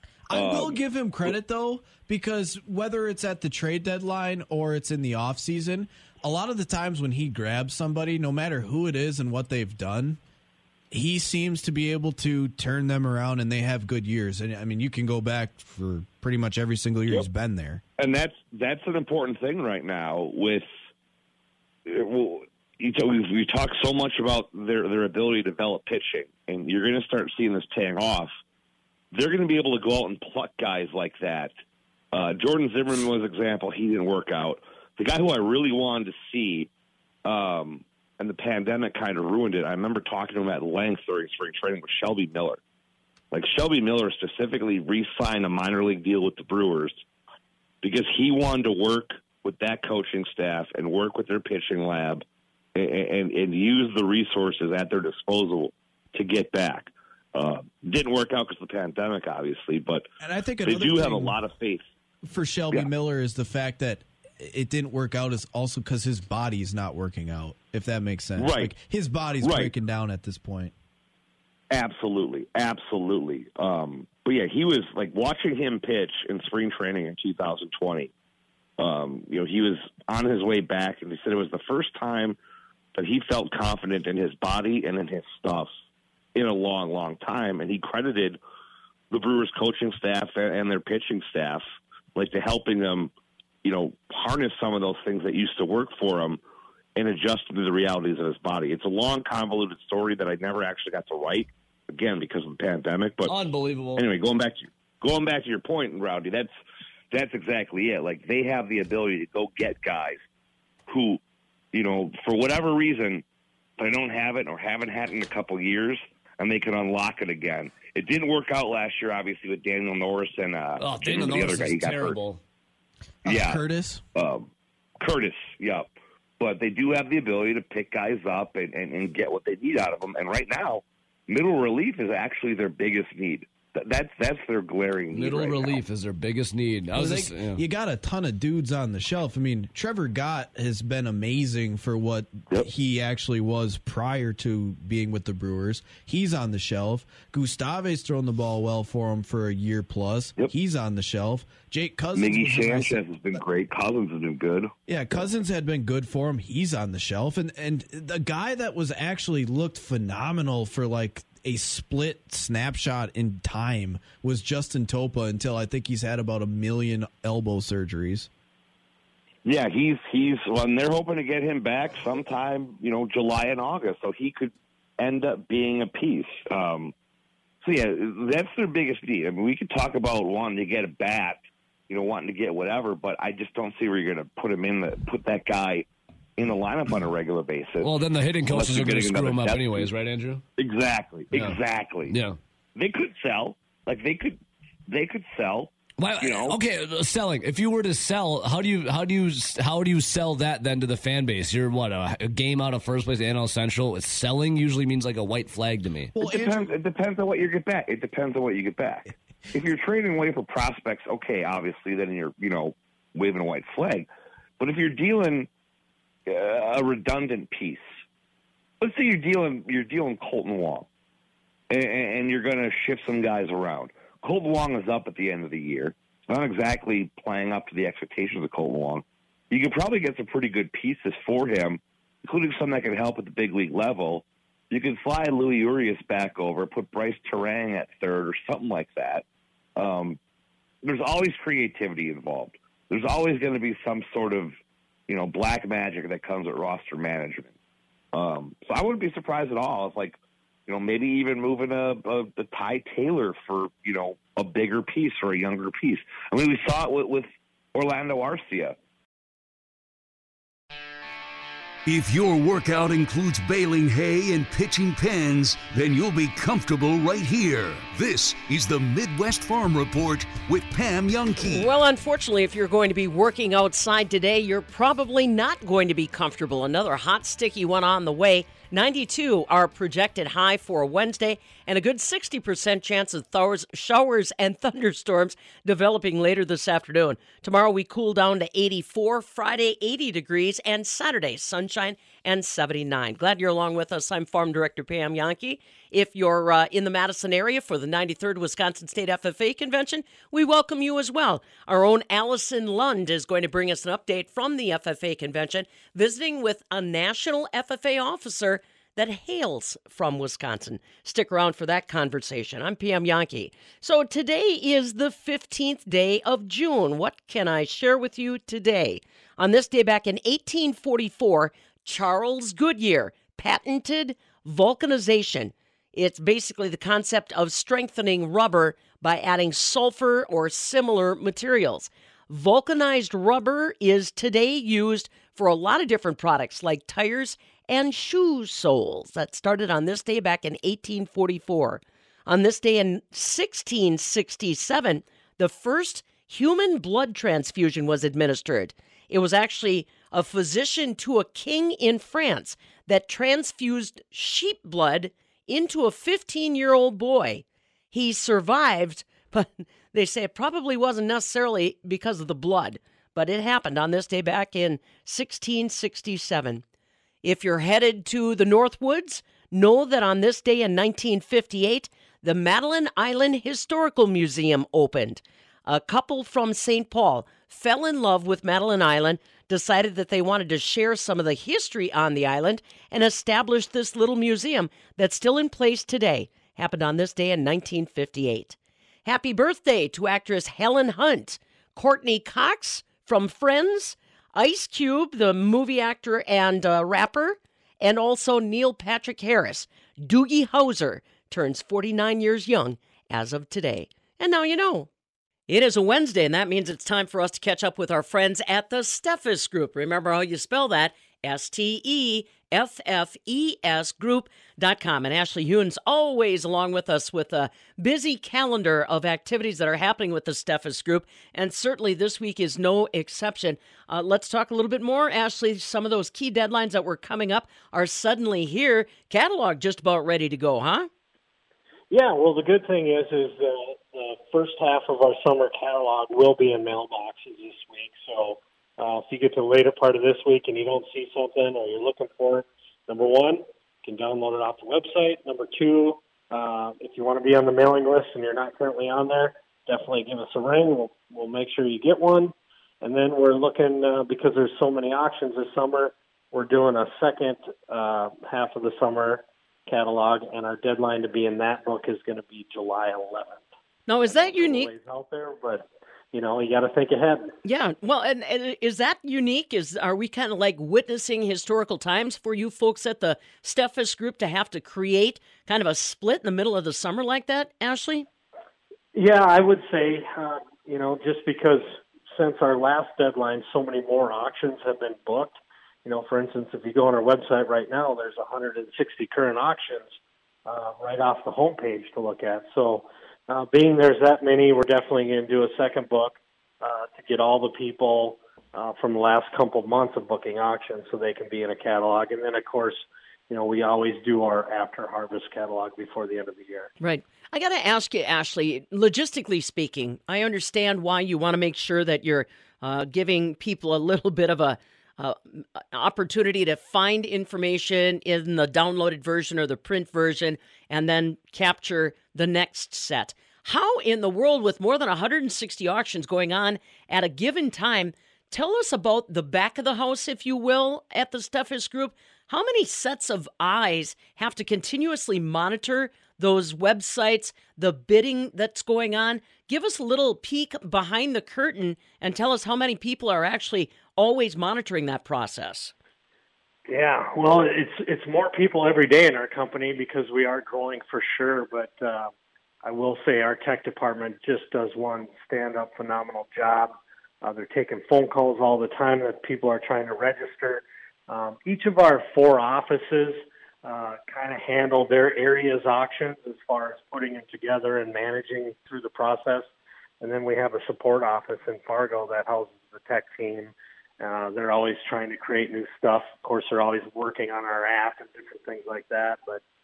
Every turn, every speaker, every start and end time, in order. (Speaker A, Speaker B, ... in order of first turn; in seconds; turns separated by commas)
Speaker A: 0.3-10.2, Speaker B: 0.3-1.3, Speaker A: 10.9-17.8, Speaker B: 18.0-20.7, Speaker B: 21.9-28.3, Speaker B: 29.1-31.6, Speaker B: 32.1-36.7, Speaker B: 37.3-42.6, Speaker B: 43.3-47.0, Speaker B: 47.8-52.2, Speaker B: 52.8-60.1, Speaker A: 60.2-61.4, Speaker B: 60.6-61.9, Speaker A: 62.2-70.7, Speaker B: 68.4-68.8, Speaker B: 69.4-69.7, Speaker B: 71.7-78.1, Speaker B: 78.8-82.4, Speaker B: 83.0-85.7, Speaker B: 86.3-88.4, Speaker B: 89.1-91.6, Speaker B: 92.2-93.1, Speaker B: 93.6-96.4, Speaker B: 97.0-103.3, Speaker C: 103.3-104.0, Speaker B: 104.0-106.5, Speaker B: 107.1-110.2, Speaker B: 110.9-111.2, Speaker B: 111.7-113.2, Speaker B: 113.8-122.2, Speaker C: 120.8-122.4, Speaker A: 123.2-124.0, Speaker B: 123.3-123.6, Speaker B: 124.2-124.5, Speaker B: 125.0-135.8, Speaker C: 135.1-137.6, Speaker A: 136.9-153.0, Speaker B: 152.1-154.7, Speaker A: 154.9-168.3, Speaker B: 169.4-176.9, Speaker B: 177.6-185.9, Speaker B: 186.4-189.9, Speaker C: 187.8-190.4, Speaker B: 190.6-192.1, Speaker C: 191.3-192.4, Speaker B: 192.8-194.4, Speaker B: 194.9-196.6, Speaker C: 196.0-206.2, Speaker A: 206.1-206.7, Speaker B: 206.2-214.1, Speaker B: 214.6-215.5, Speaker B: 216.3-217.9, Speaker B: 218.8-220.9, Speaker B: 221.7-239.2, Speaker B: 239.8-240.2, Speaker B: 240.8-244.5, Speaker B: 245.1-247.5, Speaker B: 248.1-258.8, Speaker D: 261.9-271.7, Speaker E: 271.4-366.6, Speaker E: 367.2-404.9, Speaker E: 405.5-430.9, Speaker F: 431.9-463.4, Speaker E: 463.9-464.7, Speaker F: 464.0-467.3, Speaker E: 467.4-478.1, Speaker F: 478.9-489.9, Speaker F: 490.4-506.7, Speaker E: 506.8-545.7, Speaker F: 546.7-552.1, Speaker F: 552.6-569.5, Speaker F: 570.0-579.4